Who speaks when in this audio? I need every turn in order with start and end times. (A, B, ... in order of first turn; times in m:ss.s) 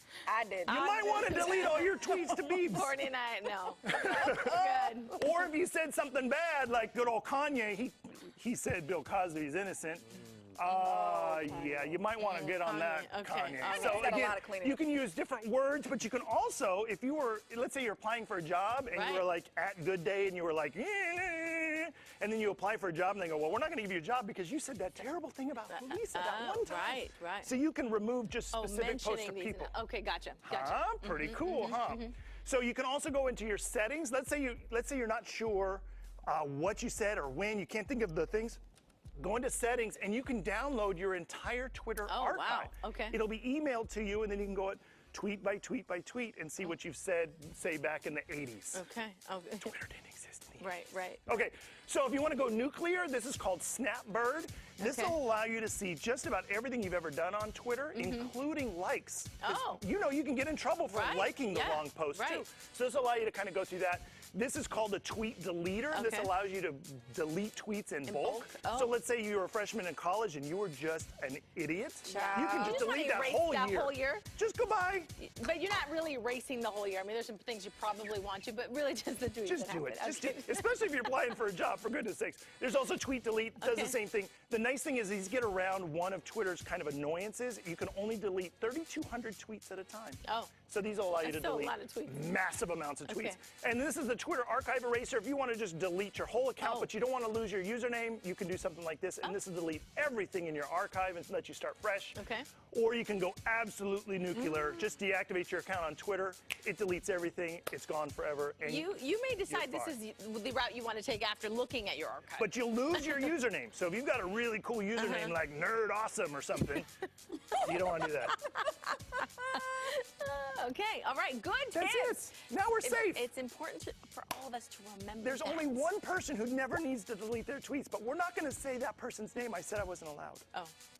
0:00.2-0:02.0 A
0:00.6-0:02.9 B
0:01.0-0:05.3 C
0:03.8-0:29.7 B
0:03.9-0:04.6 A
0:10.7-0:12.0 A
0:12.2-0:14.3 C
0:13.7-0:14.8 A
0:18.9-0:19.2 C
0:25.7-0:27.5 C
0:28.5-0:32.1 C
0:30.4-0:38.6 B
0:39.2-0:48.8 B
0:42.1-0:43.2 C
0:48.7-0:49.7 C
0:49.6-0:50.7 B
0:50.6-0:51.2 C
0:51.2-1:15.1 B
0:54.8-0:55.2 C
0:57.9-0:58.3 C
0:59.4-0:59.8 C
1:00.9-1:02.4 C
1:05.9-1:06.3 C
1:08.1-1:09.0 C
1:12.0-1:14.2 C
1:12.1-1:12.9 A
1:15.2-1:21.2 C
1:19.4-1:42.2 B
1:23.6-1:23.9 C
1:30.2-1:30.5 C
1:31.2-1:32.4 C
1:33.1-1:33.4 C
1:36.6-1:36.9 C
1:42.2-1:42.5 C
1:42.7-1:49.9 B
1:44.3-1:44.8 C
1:48.6-1:53.3 C
1:52.4-1:56.9 B
1:54.9-1:55.3 C
1:57.5-2:05.9 C
1:57.5-1:58.4 B
2:01.7-2:03.2 B
2:05.2-2:10.5 B